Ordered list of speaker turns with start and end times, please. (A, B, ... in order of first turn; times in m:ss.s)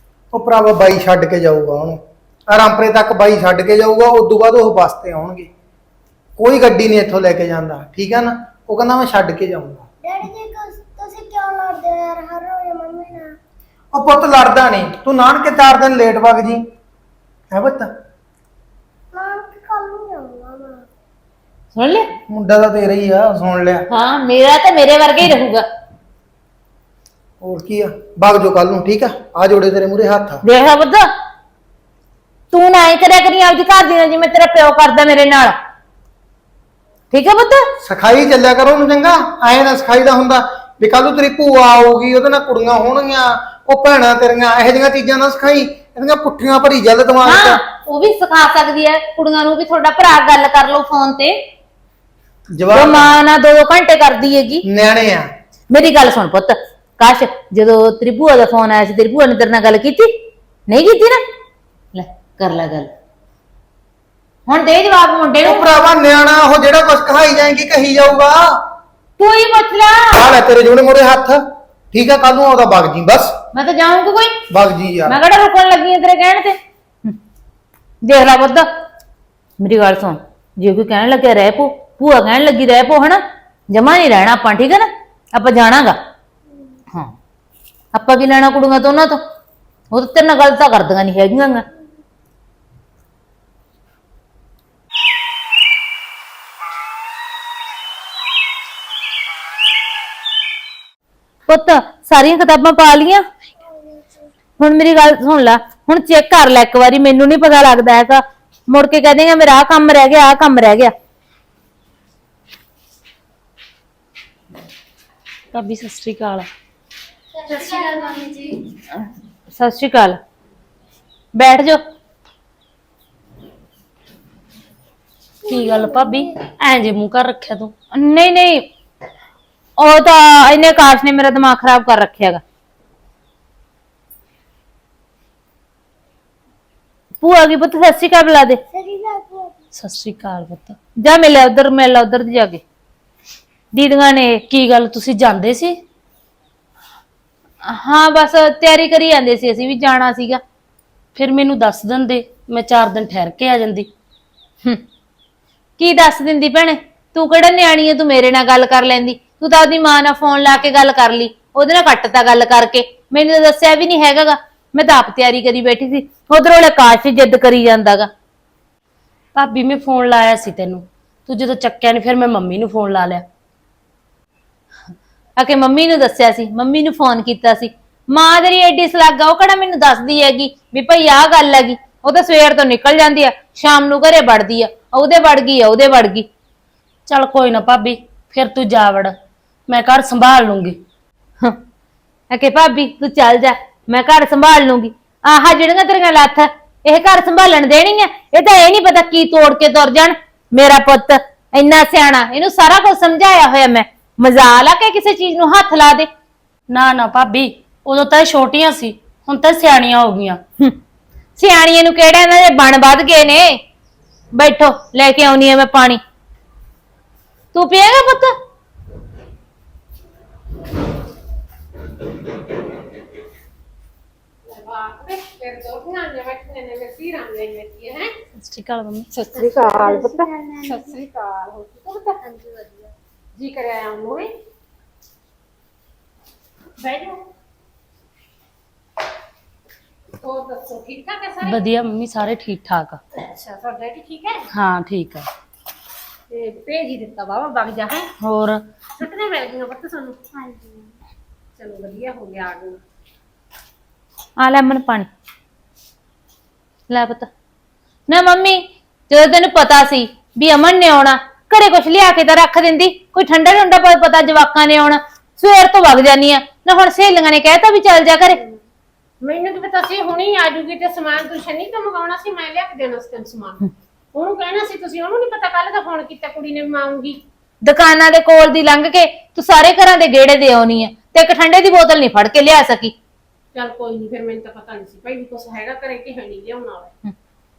0:00.3-0:05.5 A
0:06.4-0:09.8 A
0:10.0-0:13.3 B
0:13.9-0:16.6 A
0:17.5-0:17.9 A
0:19.1-0:20.8 B
0:21.7-0:22.1 C
0:22.3-0:23.8 A
0:23.9-0:25.6 C
0:27.4-0:30.4 A
0:30.4-0:31.1 C
0:32.5-0:35.5 C
0:37.1-0:37.6 C
0:37.8-0:47.6 A
0:47.2-0:51.4 C
0:52.5-0:53.1 A
0:52.7-0:54.6 C
0:54.6-0:55.3 A
0:55.7-1:00.1 C
1:00.7-1:01.2 C
1:01.9-1:02.9 C
1:04.5-1:05.7 C
1:05.4-1:08.6 A
1:09.2-1:10.2 C
1:10.1-1:13.3 A
1:13.5-1:14.4 C
1:14.5-1:15.2 A
1:15.1-1:17.2 C
1:18.0-1:18.7 C
1:19.6-1:26.0 C
1:27.9-1:29.2 C
1:29.9-1:31.6 C
1:41.5-1:43.2 C
1:43.6-1:44.3 B
1:44.6-1:50.9 C
1:55.5-1:56.5 D
1:57.4-1:58.4 B
1:59.0-2:00.2 C
2:01.3-2:01.8 C
2:05.4-2:06.4 B
2:05.5-2:07.7 D
2:07.9-2:08.7 C
2:09.8-2:12.4 C
2:17.2-2:18.6 C
2:18.7-2:19.6 B
2:19.7-2:20.8 D
2:21.0-2:22.6 C
2:23.7-2:24.4 C
2:24.5-2:25.8 D
2:27.6-2:30.4 C
2:31.1-2:33.9 D
2:35.8-2:48.1 C
2:49.3-2:53.2 D
2:55.4-3:06.3 C
3:07.1-3:09.1 D
3:09.7-3:10.8 D
3:12.3-3:26.1 C
3:26.7-3:30.4 D
3:31.4-3:33.6 C
3:34.3-3:36.0 C
3:37.5-3:38.3 C
3:44.4-3:48.1 E
3:48.4-3:49.1 D
3:49.1-3:54.3 E
3:49.3-3:51.0 B
3:56.8-3:57.2 E
4:00.2-4:01.6 E
4:01.4-4:03.0 D
4:03.1-4:04.4 E
4:04.5-4:05.3 D
4:06.3-4:08.1 E
4:08.2-4:08.6 D
4:09.0-4:10.2 E
4:10.3-4:10.9 B
4:11.6-4:12.8 E
4:14.4-4:15.1 C
4:16.9-4:17.3 C
4:18.1-4:28.4 C
4:29.2-4:33.6 E
4:34.1-4:37.2 E
4:37.6-4:42.9 C
4:43.5-4:46.9 E